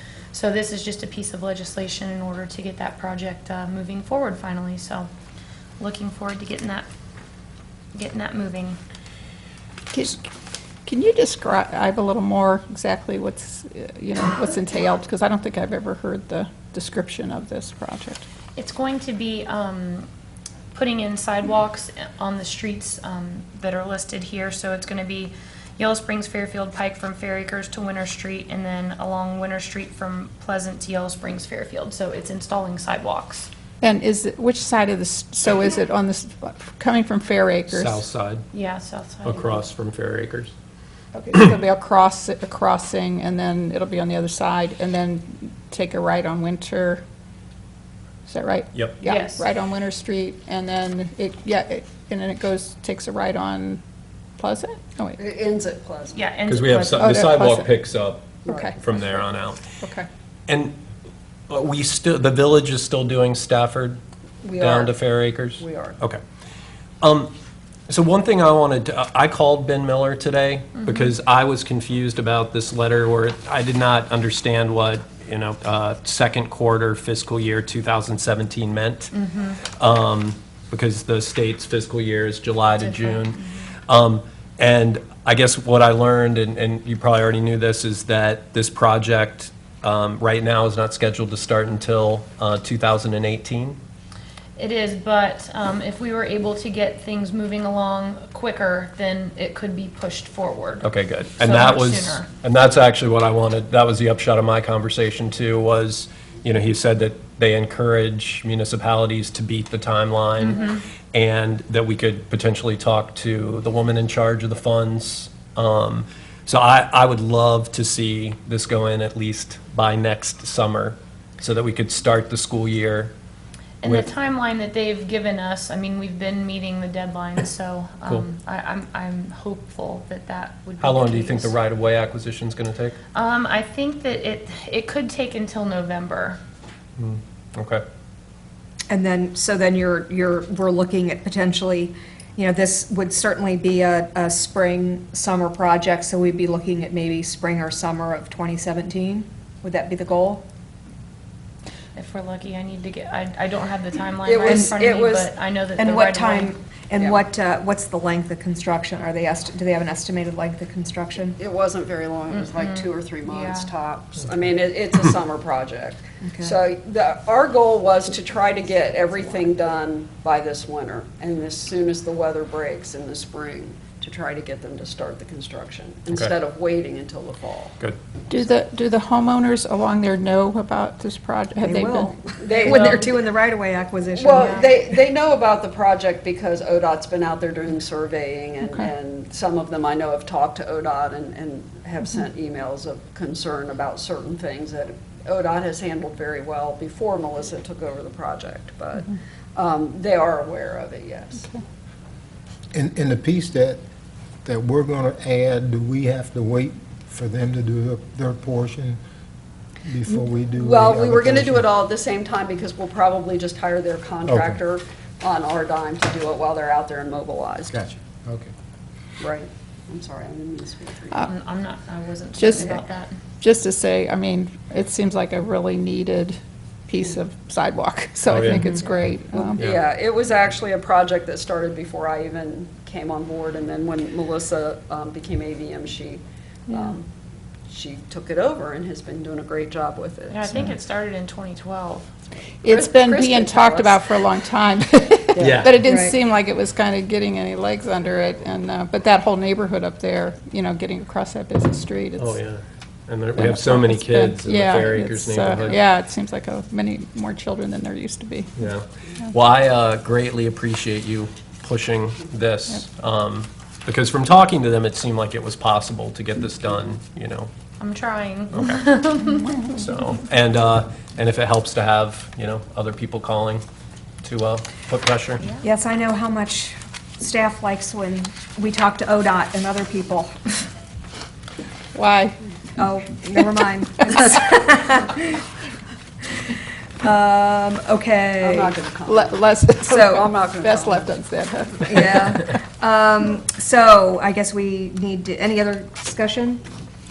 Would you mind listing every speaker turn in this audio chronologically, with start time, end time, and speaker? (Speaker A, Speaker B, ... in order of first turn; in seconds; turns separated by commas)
Speaker A: 0.3-5.1, Speaker A: 5.8-6.9, Speaker A: 7.9-8.8, Speaker B: 9.9-10.2, Speaker B: 10.8-18.2, Speaker A: 18.6-20.1, Speaker A: 20.7-33.5, Speaker B: 33.8-38.0, Speaker C: 37.7-38.4, Speaker A: 38.5-39.5, Speaker C: 39.2-40.5, Speaker B: 41.1-47.0, Speaker B: 48.3-53.8, Speaker C: 48.7-49.0, Speaker A: 49.0-49.5, Speaker B: 54.4-55.2, Speaker D: 55.2-56.1, Speaker A: 56.1-57.1, Speaker C: 56.5-59.6, Speaker B: 56.8-57.7, Speaker B: 58.5-58.8, Speaker D: 58.5-58.8, Speaker B: 59.8-60.1, Speaker C: 60.5-60.8, Speaker C: 61.5-64.0, Speaker D: 64.4-65.0, Speaker C: 64.6-66.2, Speaker D: 65.6-66.0, Speaker C: 67.0-67.3, Speaker C: 67.9-79.1, Speaker A: 70.8-71.1, Speaker A: 79.1-79.6, Speaker C: 79.8-93.8, Speaker A: 82.8-83.7, Speaker A: 94.6-100.9, Speaker C: 100.8-110.6, Speaker A: 101.4-102.3, Speaker A: 110.4-110.8, Speaker C: 111.1-123.1, Speaker A: 123.8-131.5, Speaker C: 130.8-133.0, Speaker A: 133.1-136.4, Speaker C: 137.0-137.8, Speaker E: 138.9-150.4, Speaker A: 151.9-156.6, Speaker D: 154.2-155.3, Speaker E: 154.4-154.7, Speaker E: 155.8-161.3, Speaker D: 157.0-157.2, Speaker D: 161.4-177.8, Speaker A: 162.3-163.7, Speaker E: 166.2-166.6, Speaker B: 178.3-182.2, Speaker E: 181.6-184.6, Speaker D: 182.4-183.3, Speaker D: 184.1-201.5, Speaker F: 202.7-203.8, Speaker F: 204.4-209.0, Speaker F: 209.8-211.8, Speaker D: 210.5-217.8, Speaker F: 214.2-214.6, Speaker F: 217.7-218.5, Speaker D: 219.2-221.2, Speaker A: 221.2-223.2, Speaker B: 222.4-222.8, Speaker B: 223.4-226.4, Speaker B: 226.9-229.6, Speaker C: 228.3-228.6, Speaker D: 229.3-237.1, Speaker D: 237.7-240.6, Speaker A: 240.3-242.1, Speaker B: 242.6-252.4, Speaker D: 242.7-244.0, Speaker D: 245.3-245.8, Speaker C: 245.4-245.8, Speaker E: 245.8-246.2, Speaker C: 252.2-255.8, Speaker B: 253.3-258.7, Speaker C: 258.6-267.5, Speaker A: 267.8-269.7, Speaker C: 268.5-268.8, Speaker B: 269.4-269.7, Speaker C: 269.7-273.6, Speaker C: 274.2-275.4, Speaker E: 275.6-280.3, Speaker B: 281.9-282.4, Speaker E: 282.8-285.4, Speaker E: 287.0-288.8, Speaker D: 288.4-291.1, Speaker B: 289.1-292.6, Speaker E: 289.8-290.3, Speaker E: 291.8-296.6, Speaker D: 291.9-292.3